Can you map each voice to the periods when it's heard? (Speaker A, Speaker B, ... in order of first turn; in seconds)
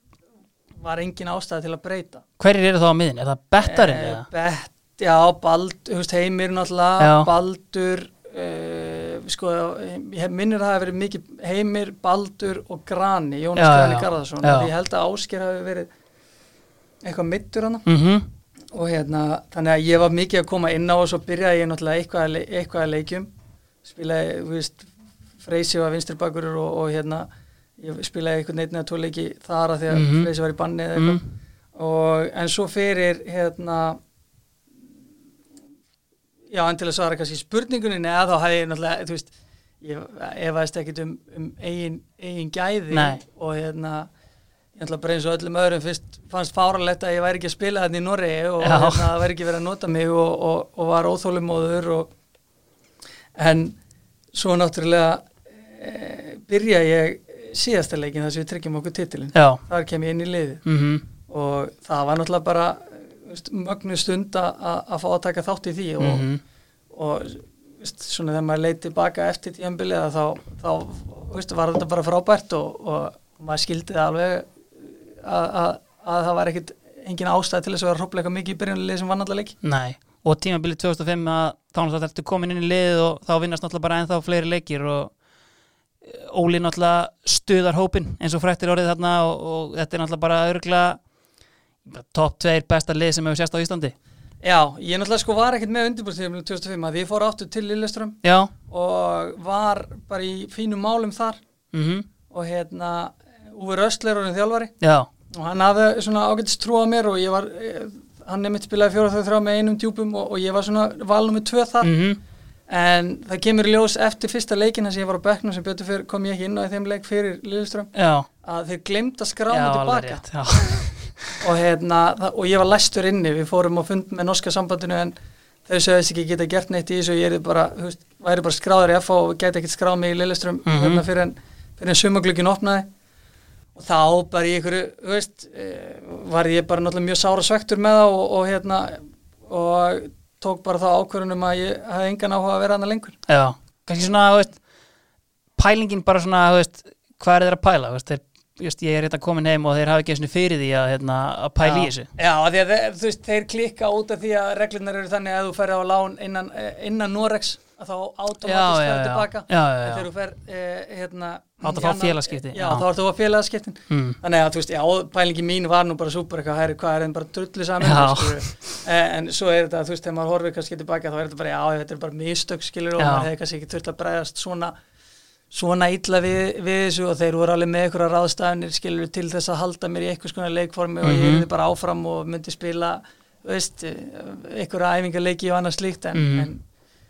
Speaker A: 0.8-2.2, 3.6-15.9, 17.0-17.9, 18.7-23.3, 23.8-31.2, 31.7-34.0, 36.5-44.1, 44.8-52.1, 53.4-53.8, 54.3-60.6, 61.3-66.2, 66.9-79.5, 94.4-101.4, 102.3-104.7, 105.3-111.9, 112.7-120.2, 121.4-125.1, 125.7-132.9, 133.7-143.2, 151.6-174.7, 175.5-186.6
Speaker B: 2.4-4.3, 7.0-7.3, 13.6-14.7, 17.9-18.3, 29.9-30.3, 30.9-31.2, 42.9-43.2, 48.6-49.1, 59.3-59.6, 60.6-61.0, 66.0-66.4, 79.6-85.1, 86.0-91.0, 91.8-93.9, 98.2-98.5, 101.7-102.1, 104.8-105.1, 111.8-112.2, 117.9-118.3, 119.5-121.4, 130.7-131.0, 143.3-144.6, 145.6-152.1, 158.4-160.1, 161.6-162.9, 163.9-164.2, 167.8-168.5, 173.0-173.3, 181.0-181.4, 186.1-186.5